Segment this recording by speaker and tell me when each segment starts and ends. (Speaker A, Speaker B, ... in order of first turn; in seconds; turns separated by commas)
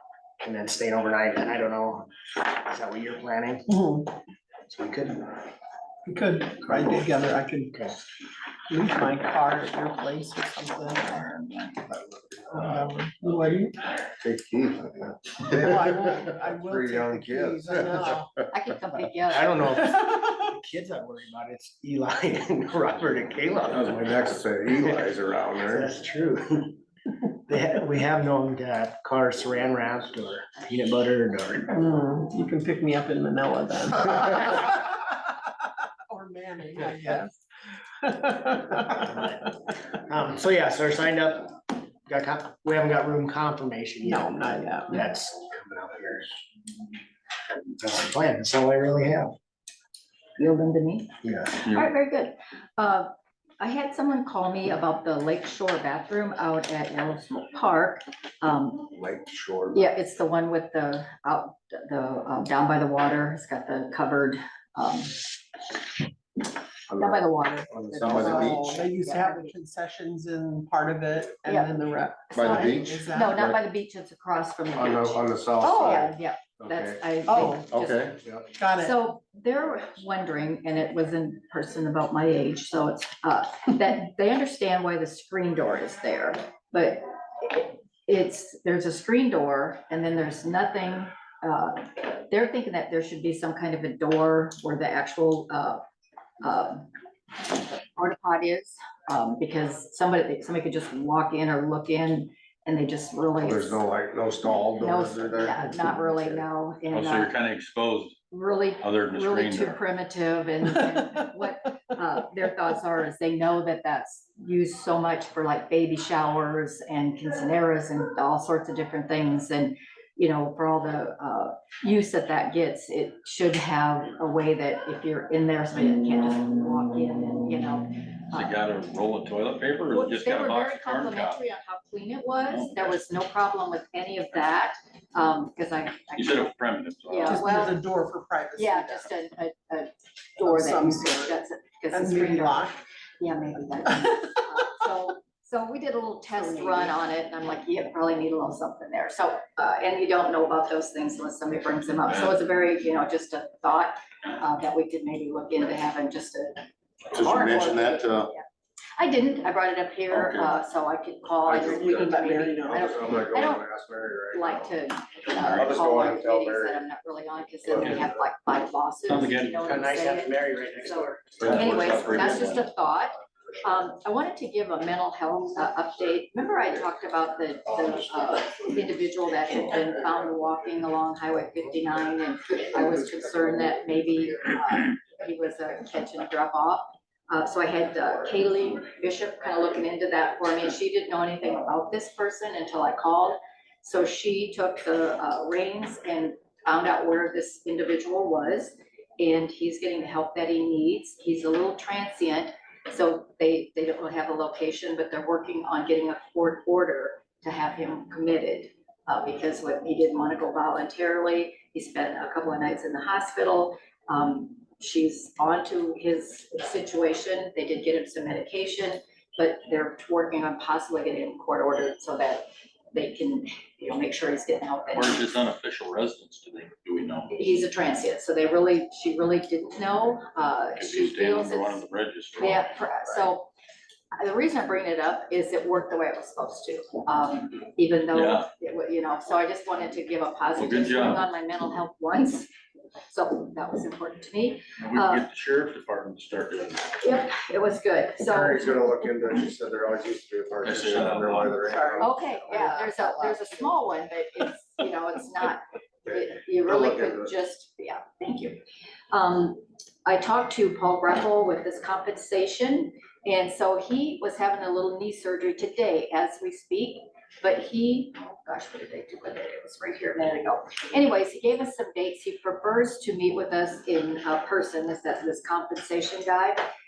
Speaker A: 0.4-2.1, Speaker A: 2.6-3.7, Speaker B: 3.7-4.1, Speaker A: 4.6-5.3, Speaker B: 6.0-7.9, Speaker B: 8.7-11.8, Speaker B: 12.5-13.8, Speaker C: 14.2-16.0, Speaker B: 15.4-18.4, Speaker C: 16.6-18.3, Speaker D: 18.5-19.6, Speaker A: 19.3-26.8, Speaker C: 23.7-25.9, Speaker A: 27.3-31.8, Speaker B: 31.7-35.1, Speaker B: 36.1-37.4, Speaker B: 38.0-38.9, Speaker A: 38.8-46.3, Speaker B: 44.0-45.0, Speaker A: 47.8-49.3, Speaker D: 50.4-58.9, Speaker A: 51.2-51.6, Speaker E: 51.6-51.9, Speaker C: 58.9-60.0, Speaker D: 59.7-65.3, Speaker C: 66.9-68.6, Speaker D: 66.9-69.5, Speaker B: 68.0-73.5, Speaker D: 71.5-71.8, Speaker C: 72.3-73.6, Speaker D: 72.3-78.2, Speaker C: 74.7-77.0, Speaker B: 75.6-76.1, Speaker B: 77.3-77.7, Speaker C: 77.7-78.4, Speaker B: 78.5-79.0, Speaker D: 78.7-95.8, Speaker D: 96.4-96.9, Speaker D: 97.5-103.8, Speaker C: 103.4-106.4, Speaker D: 104.8-107.3, Speaker E: 106.9-108.2, Speaker D: 108.3-128.6, Speaker E: 108.8-109.8, Speaker E: 128.3-131.4, Speaker D: 129.9-136.5, Speaker E: 132.5-132.9, Speaker E: 136.1-137.4, Speaker D: 137.1-137.8, Speaker B: 137.2-139.1, Speaker D: 138.6-142.6, Speaker B: 140.4-141.4, Speaker B: 141.9-142.8, Speaker D: 143.2-158.4, Speaker B: 146.3-147.0, Speaker E: 152.1-152.4, Speaker C: 157.1-158.3, Speaker D: 159.0-163.6, Speaker E: 160.1-160.6, Speaker C: 161.4-164.8, Speaker B: 161.6-163.2, Speaker D: 164.3-225.3, Speaker E: 165.3-165.9, Speaker C: 165.4-166.8, Speaker E: 167.8-168.1, Speaker E: 169.1-169.7, Speaker A: 169.6-171.9, Speaker E: 171.4-172.7, Speaker E: 224.9-227.3, Speaker D: 227.3-231.8, Speaker E: 230.8-232.7, Speaker D: 232.4-233.5, Speaker D: 234.1-242.5, Speaker E: 238.1-238.5, Speaker E: 240.6-241.3, Speaker D: 243.1-245.2, Speaker E: 244.8-247.2, Speaker D: 247.0-249.0, Speaker C: 248.2-252.7, Speaker E: 250.6-251.6, Speaker B: 251.7-253.8, Speaker D: 252.0-258.6, Speaker C: 256.1-257.3, Speaker D: 259.1-276.6